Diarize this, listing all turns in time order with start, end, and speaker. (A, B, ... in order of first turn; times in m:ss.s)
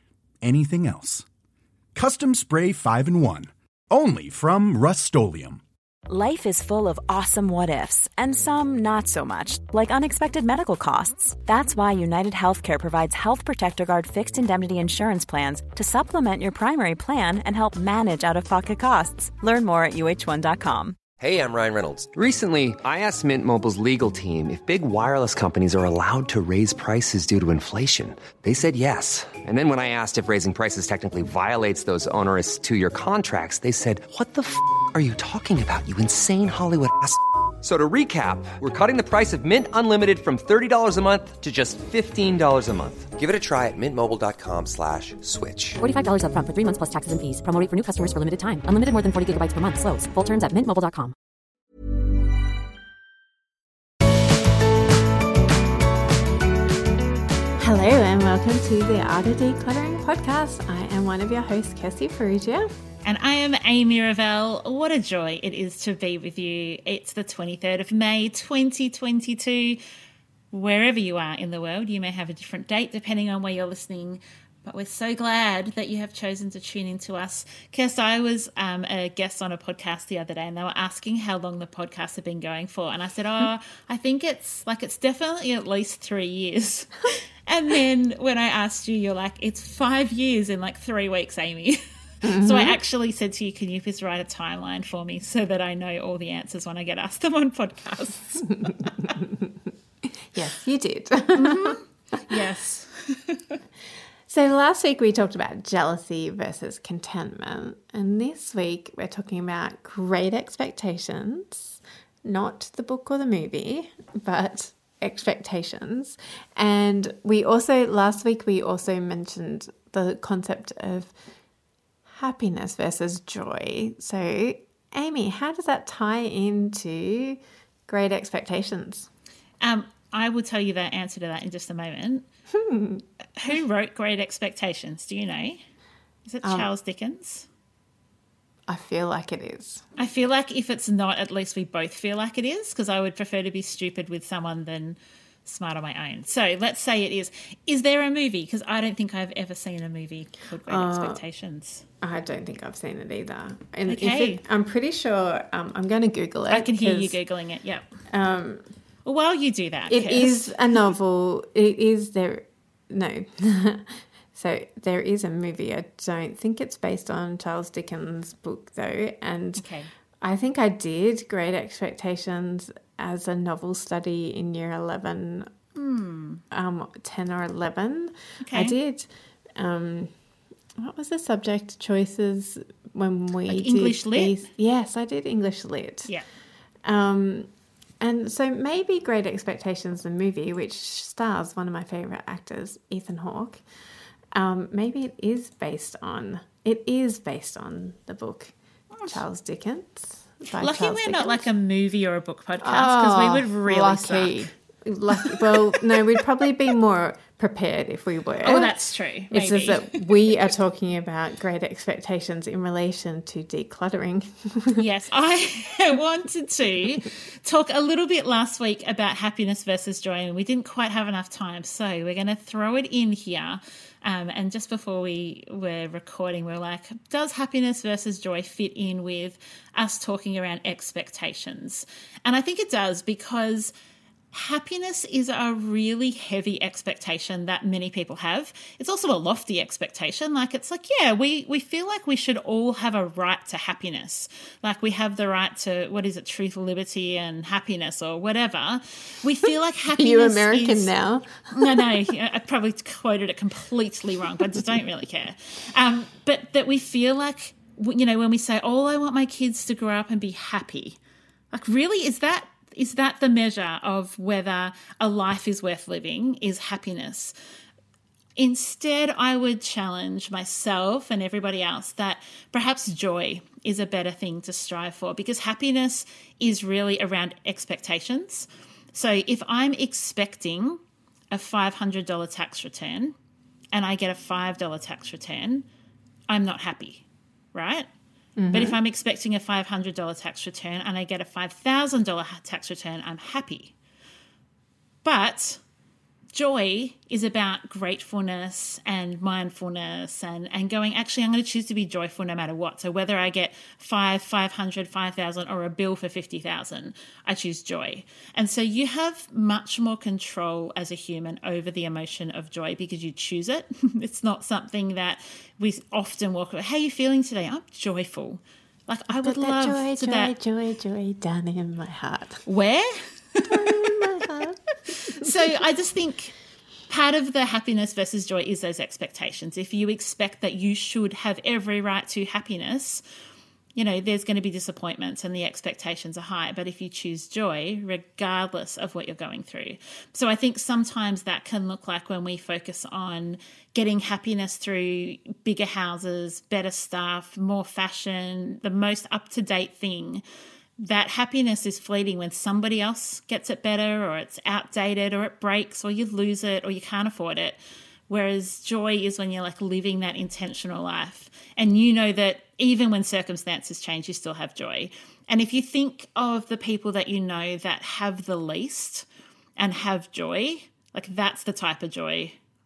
0:00.4-0:01.2 A
0:02.0-0:05.6 A
0:06.1-0:21.0 B
0:21.2-0:45.8 C
0:45.8-0:51.1 D
0:57.6-1:02.7 E
1:03.0-1:09.8 F
1:10.5-1:39.2 F
1:32.2-1:32.8 E
1:39.0-1:39.6 E
1:40.1-1:42.3 E
1:41.3-1:43.6 F
1:44.3-2:01.1 E
2:02.1-2:09.1 E
2:09.6-2:12.2 F
2:12.5-2:13.0 E
2:13.4-2:15.6 F
2:16.3-2:17.5 F
2:16.4-2:16.7 E
2:18.7-2:19.8 E
2:20.0-2:31.8 F
2:30.7-2:31.2 E
2:32.0-2:37.2 E
2:33.9-2:34.4 F
2:36.5-2:37.9 F
2:38.1-2:38.6 E
2:39.0-2:40.6 F
2:39.9-2:49.7 E
2:49.6-2:49.9 F
2:50.2-2:55.5 E
2:55.8-2:56.4 F
2:56.5-3:00.1 E
2:58.4-2:58.8 F
3:00.8-3:06.1 E
3:03.5-3:04.4 F
3:06.8-3:13.6 E
3:14.3-3:18.5 E
3:19.0-3:21.5 E
3:20.6-3:24.5 F
3:22.6-3:28.8 E
3:25.2-3:25.8 F
3:28.4-3:30.1 F
3:29.3-3:34.8 E
3:34.8-3:53.7 F
3:54.3-4:10.9 F
4:09.9-4:12.0 E
4:11.5-4:21.0 F
4:21.5-4:27.3 F
4:28.4-4:43.2 F
4:43.7-4:45.6 F
4:46.3-4:47.9 F
4:48.4-4:48.8 E
4:48.5-4:53.7 F
4:55.0-4:55.6 F
4:56.3-5:20.3 F
5:19.2-5:22.4 E
5:22.4-5:24.2 F
5:23.4-5:25.4 E
5:24.9-5:26.3 F
5:26.9-5:33.0 F
5:33.8-5:50.2 F
5:50.8-6:09.1 F
6:09.6-6:12.4 F